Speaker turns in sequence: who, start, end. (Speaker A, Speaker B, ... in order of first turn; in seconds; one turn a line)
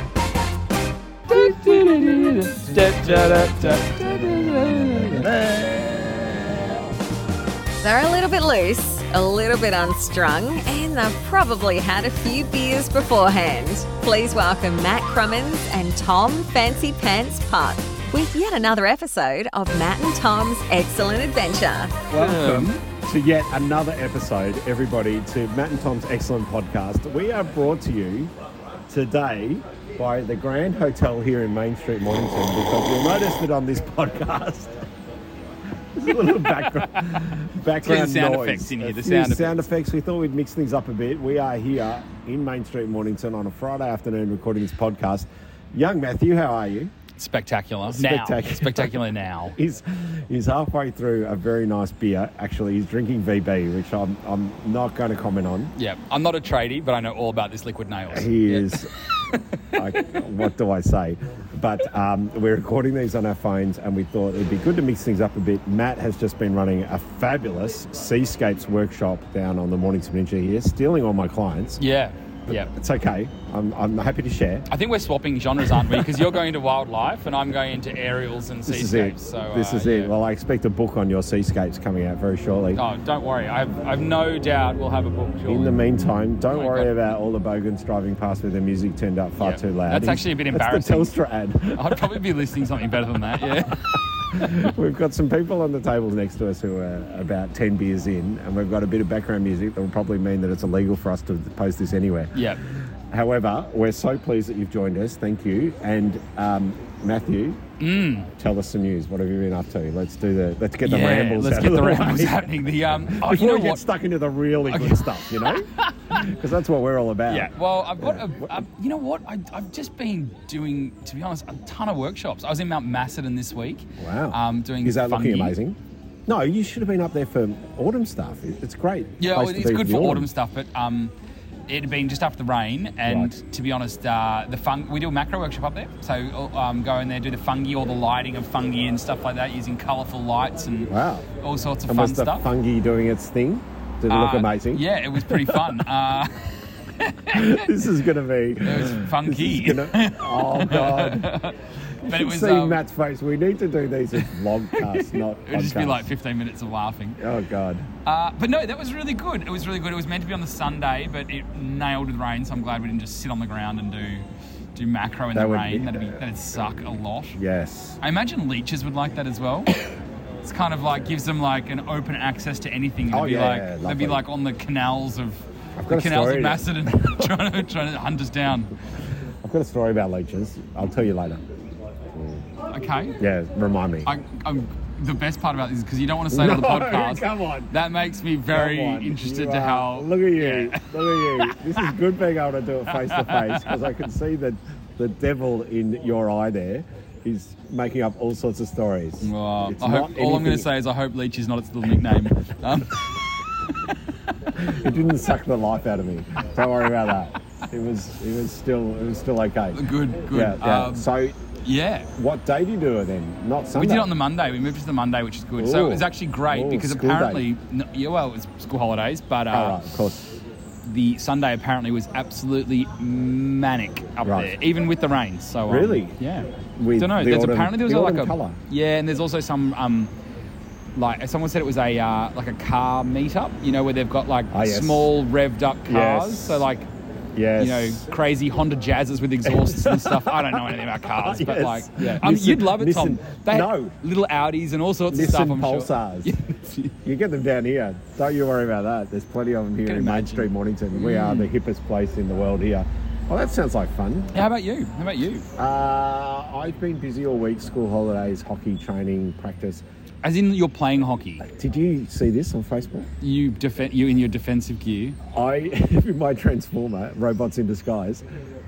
Speaker A: 1.3-5.3
Speaker B: 1.3-6.8
Speaker C: 7.8-22.0
Speaker A: 22.1-22.8
Speaker B: 22.1-28.3
Speaker B: 28.9-34.8
Speaker B: 35.9-46.9
Speaker A: 37.8-39.6
Speaker A: 47.2-49.5
Speaker B: 47.9-49.0
Speaker B: 49.5-55.7
Speaker A: 55.8-60.1
Speaker B: 58.1-58.9
Speaker B: 59.7-71.8
Speaker A: 71.8-72.7
Speaker B: 72.5-74.7
Speaker A: 74.7-80.1
Speaker B: 78.7-82.8
Speaker A: 82.7-85.8
Speaker B: 85.5-92.2
Speaker A: 86.5-86.9
Speaker A: 89.4-91.1
Speaker A: 91.7-94.6
Speaker B: 94.3-102.3
Speaker A: 102.3-102.6
Speaker B: 103.1-107.6
Speaker A: 107.8-108.3
Speaker B: 108.4-118.6
Speaker A: 110.8-113.8
Speaker A: 114.7-116.2
Speaker A: 117.3-125.6
Speaker B: 124.0-130.3
Speaker A: 129.2-131.1
Speaker A: 131.7-142.4
Speaker B: 133.1-133.3
Speaker B: 140.9-141.3
Speaker B: 141.9-145.8
Speaker A: 144.1-146.4
Speaker A: 147.0-147.7
Speaker B: 147.3-151.3
Speaker A: 148.6-152.8
Speaker B: 152.0-156.1
Speaker A: 154.7-157.2
Speaker B: 157.2-157.9
Speaker A: 158.0-167.4
Speaker B: 165.3-166.2
Speaker B: 167.4-168.0
Speaker A: 168.0-169.7
Speaker A: 170.4-178.7
Speaker B: 173.1-174.2
Speaker B: 175.8-177.4
Speaker B: 179.4-181.4
Speaker B: 182.1-182.4
Speaker A: 182.7-183.2
Speaker B: 183.2-184.1
Speaker A: 184.0-191.9
Speaker B: 186.3-187.7
Speaker B: 188.5-200.7
Speaker A: 192.9-193.8
Speaker A: 199.2-203.1
Speaker B: 204.6-211.4
Speaker A: 209.7-211.1
Speaker A: 211.6-212.1
Speaker B: 212.2-214.1
Speaker A: 213.8-219.8
Speaker B: 215.6-217.4
Speaker B: 219.5-220.3
Speaker A: 220.8-230.1
Speaker B: 224.2-224.6
Speaker B: 225.7-226.2
Speaker B: 226.8-228.6
Speaker A: 230.9-236.9
Speaker B: 234.5-235.1
Speaker B: 235.8-236.6
Speaker B: 237.3-238.1
Speaker A: 237.6-246.9
Speaker B: 239.4-243.9
Speaker B: 245.1-246.3
Speaker B: 247.0-254.5
Speaker A: 249.8-251.5
Speaker A: 254.3-255.5
Speaker B: 255.6-259.8
Speaker A: 260.2-261.4
Speaker B: 261.4-263.1
Speaker A: 263.2-265.2
Speaker B: 265.3-268.2